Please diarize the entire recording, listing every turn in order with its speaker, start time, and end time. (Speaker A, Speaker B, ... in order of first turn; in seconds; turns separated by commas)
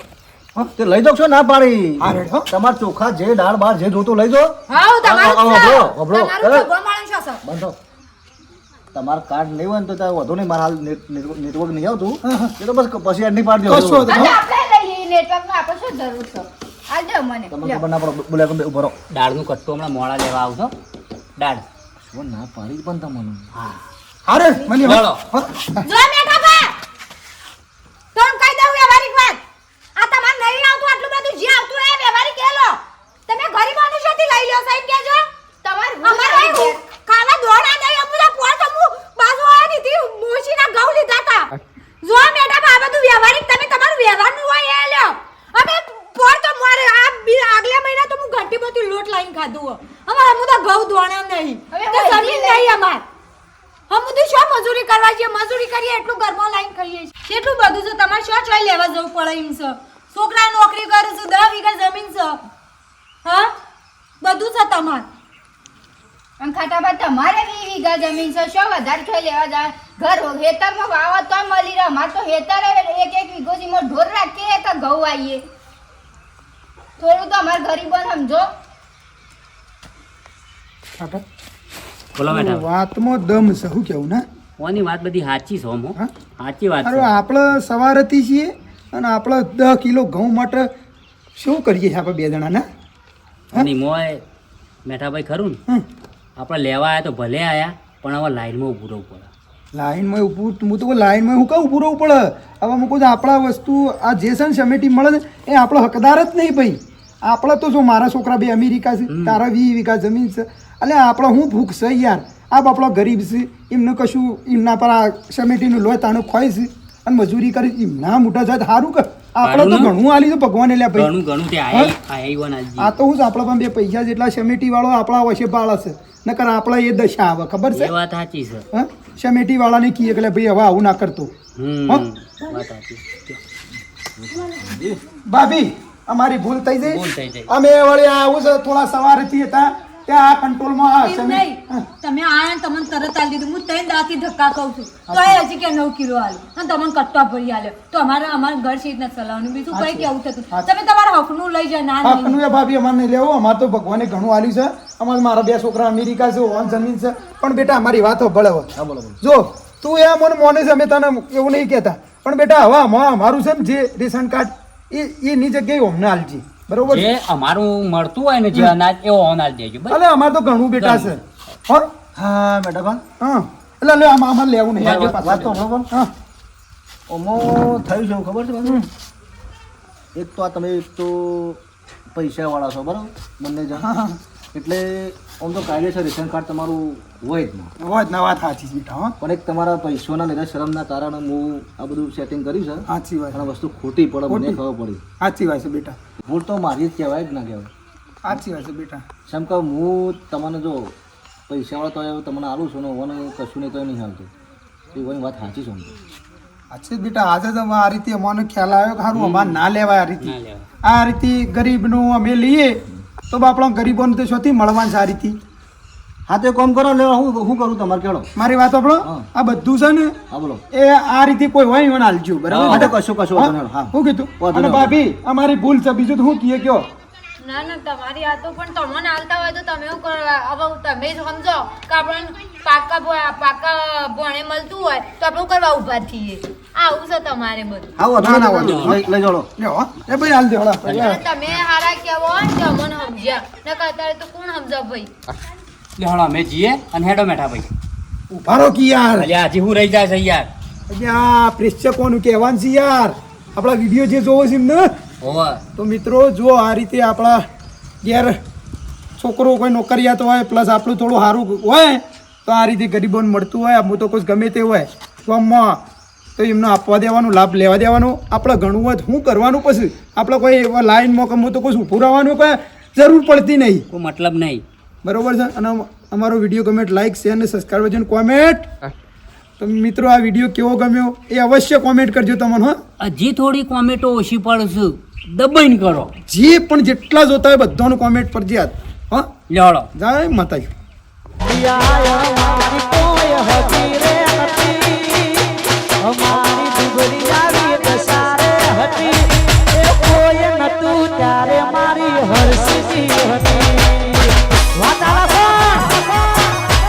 Speaker A: 0.8-6.7, Speaker B: 2.0-2.5, Speaker C: 4.7-7.4, Speaker A: 7.4-7.8, Speaker A: 8.9-14.2, Speaker B: 12.3-12.5, Speaker B: 13.7-14.4, Speaker D: 14.1-17.8, Speaker A: 17.5-18.9, Speaker E: 19.1-20.7, Speaker E: 21.4-21.6, Speaker A: 22.1-23.4, Speaker B: 24.3-25.9, Speaker E: 24.8-25.2, Speaker C: 25.9-26.7, Speaker C: 28.1-29.4, Speaker C: 30.0-35.3, Speaker D: 35.6-36.8, Speaker C: 36.0-41.5, Speaker C: 42.0-53.0, Speaker D: 51.7-52.8, Speaker C: 53.9-62.4, Speaker C: 63.2-63.5, Speaker C: 64.2-65.1, Speaker D: 66.4-75.4, Speaker D: 77.0-78.5, Speaker E: 82.2-82.7, Speaker B: 82.3-84.2, Speaker E: 84.6-87.1, Speaker B: 86.8-90.7, Speaker B: 91.4-92.7, Speaker E: 93.5-94.2, Speaker E: 94.9-95.6, Speaker E: 96.4-99.3, Speaker B: 99.7-121.1, Speaker E: 109.1-109.4, Speaker E: 119.4-119.9, Speaker E: 121.0-122.9, Speaker B: 122.8-127.9, Speaker E: 127.7-128.6, Speaker B: 128.7-131.3, Speaker E: 131.6-133.4, Speaker B: 131.9-132.6, Speaker A: 134.2-135.0, Speaker B: 135.3-141.8, Speaker E: 136.8-137.5, Speaker C: 141.0-152.4, Speaker B: 145.1-145.4, Speaker B: 149.7-150.7, Speaker B: 152.0-167.1, Speaker A: 158.8-159.2, Speaker E: 166.9-170.0, Speaker B: 169.9-171.9, Speaker E: 170.8-171.1, Speaker A: 172.2-173.0, Speaker B: 173.2-176.1, Speaker E: 174.8-175.4, Speaker A: 175.2-175.9, Speaker A: 177.1-178.8, Speaker A: 180.2-181.6, Speaker A: 182.1-183.9, Speaker B: 183.8-184.2, Speaker A: 184.5-187.7, Speaker B: 187.8-189.2, Speaker A: 189.2-195.0, Speaker B: 192.9-193.4, Speaker B: 194.3-194.6, Speaker B: 195.2-196.0, Speaker A: 196.2-197.7, Speaker B: 198.2-199.1, Speaker A: 199.3-200.9, Speaker A: 201.5-204.3, Speaker A: 204.9-205.9, Speaker B: 206.7-215.4, Speaker E: 209.2-209.5, Speaker E: 210.2-210.7, Speaker A: 216.3-218.3, Speaker B: 218.4-220.2, Speaker A: 220.3-220.6, Speaker B: 220.7-226.9, Speaker E: 222.5-222.9, Speaker A: 222.7-225.0, Speaker C: 227.4-237.9, Speaker A: 238.0-239.5, Speaker B: 238.2-239.0, Speaker E: 238.6-239.0, Speaker B: 239.6-241.2, Speaker E: 240.8-241.2, Speaker C: 240.9-245.1, Speaker E: 246.0-247.7, Speaker B: 248.3-249.3, Speaker E: 249.2-250.5, Speaker B: 250.9-254.9, Speaker E: 255.2-255.6, Speaker B: 255.8-257.4, Speaker B: 258.0-258.4, Speaker B: 259.2-265.8, Speaker B: 266.4-273.9, Speaker E: 273.9-274.6, Speaker B: 275.0-278.7, Speaker B: 279.6-282.8, Speaker E: 283.0-286.1, Speaker B: 286.3-289.3, Speaker E: 289.5-289.9, Speaker B: 289.9-290.7, Speaker F: 291.5-294.7, Speaker F: 296.8-299.0, Speaker F: 299.9-303.6, Speaker F: 304.9-305.8